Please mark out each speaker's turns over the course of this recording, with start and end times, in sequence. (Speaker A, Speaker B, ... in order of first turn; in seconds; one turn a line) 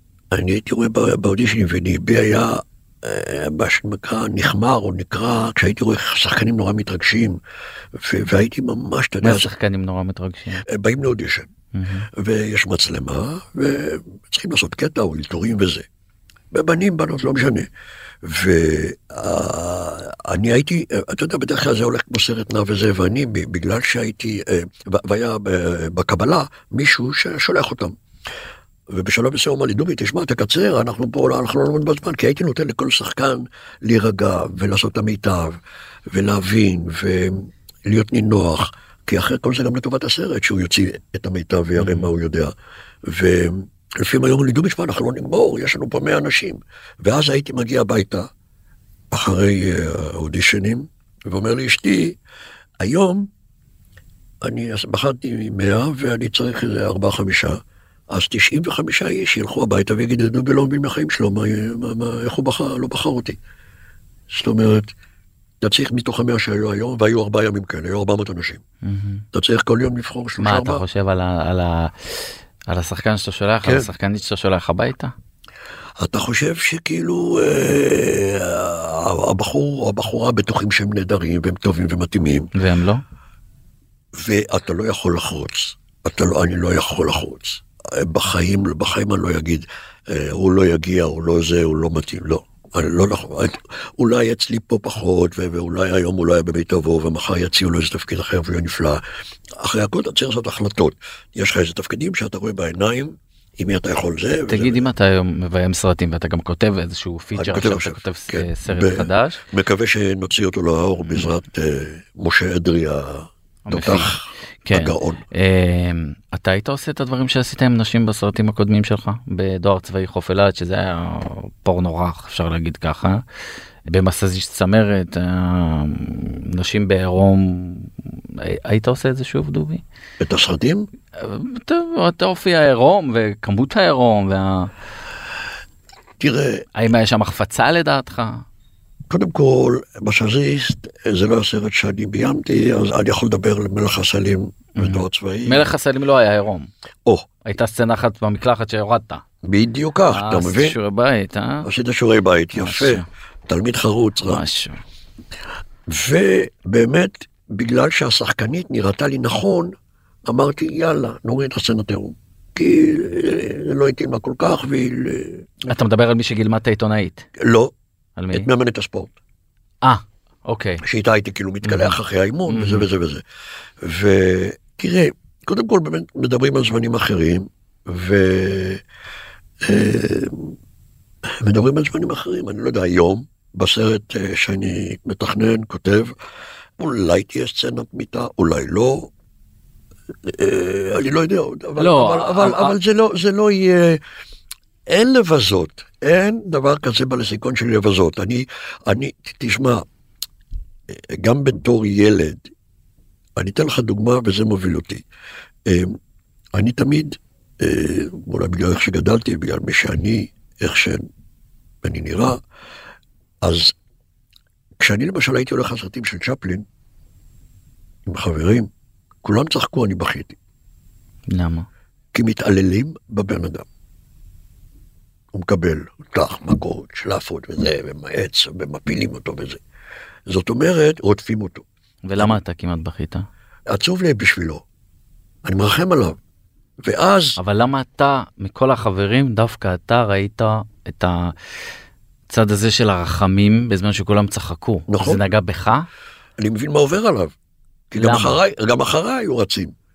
Speaker A: 0.3-7.4
Speaker A: 8.0-9.5
Speaker B: 9.2-10.6
Speaker A: 10.7-11.5
Speaker B: 11.7-12.1
Speaker A: 12.1-15.8
Speaker A: 16.5-17.7
Speaker A: 18.2-27.9
Speaker A: 28.9-35.6
Speaker A: 36.1-42.5
Speaker B: 41.8-42.1
Speaker A: 43.0-48.3
Speaker A: 49.1-52.2
Speaker A: 52.8-53.3
Speaker A: 54.4-57.6
Speaker A: 58.1-63.4
Speaker A: 64.3-64.9
Speaker A: 65.6-68.6
Speaker B: 68.8-69.2
Speaker A: 69.3-70.8
Speaker B: 70.4-75.1
Speaker A: 73.6-73.9
Speaker A: 76.0-82.5
Speaker B: 82.6-83.0
Speaker A: 84.1-99.0
Speaker A: 99.6-104.8
Speaker B: 104.5-109.4
Speaker A: 107.3-115.2
Speaker B: 113.7-114.1
Speaker B: 114.7-123.2
Speaker B: 123.9-129.8
Speaker A: 130.2-130.9
Speaker B: 131.2-134.7
Speaker A: 136.2-136.7
Speaker B: 136.8-138.4
Speaker A: 139.1-145.7
Speaker B: 144.8-146.7
Speaker B: 147.4-149.2
Speaker A: 149.4-150.8
Speaker B: 150.1-151.7
Speaker A: 151.6-154.4
Speaker B: 152.5-153.1
Speaker B: 154.2-154.8
Speaker A: 155.9-165.6
Speaker B: 165.7-167.3
Speaker A: 167.4-167.7
Speaker B: 168.2-168.5
Speaker A: 168.3-169.1
Speaker B: 169.8-170.8
Speaker A: 170.8-173.2
Speaker B: 171.6-172.0
Speaker B: 172.5-172.9
Speaker A: 173.8-178.8
Speaker A: 179.6-180.6
Speaker A: 181.4-186.2
Speaker A: 186.8-189.1
Speaker A: 190.2-194.0
Speaker B: 191.8-192.8
Speaker A: 194.9-199.8
Speaker A: 200.9-202.5
Speaker A: 203.4-205.0
Speaker A: 205.7-206.0
Speaker A: 206.6-211.1
Speaker A: 211.8-212.4
Speaker A: 213.4-213.8
Speaker A: 214.8-216.7
Speaker A: 218.1-218.7
Speaker A: 219.2-220.4
Speaker B: 221.3-221.7
Speaker A: 222.1-223.7
Speaker A: 225.3-229.6
Speaker A: 230.3-231.7
Speaker B: 232.1-233.3
Speaker A: 233.7-234.6
Speaker A: 235.4-236.2
Speaker A: 236.8-237.4
Speaker B: 237.4-241.3
Speaker B: 242.3-245.9
Speaker A: 244.9-245.2
Speaker A: 246.4-247.3
Speaker A: 247.9-249.8
Speaker B: 248.0-248.4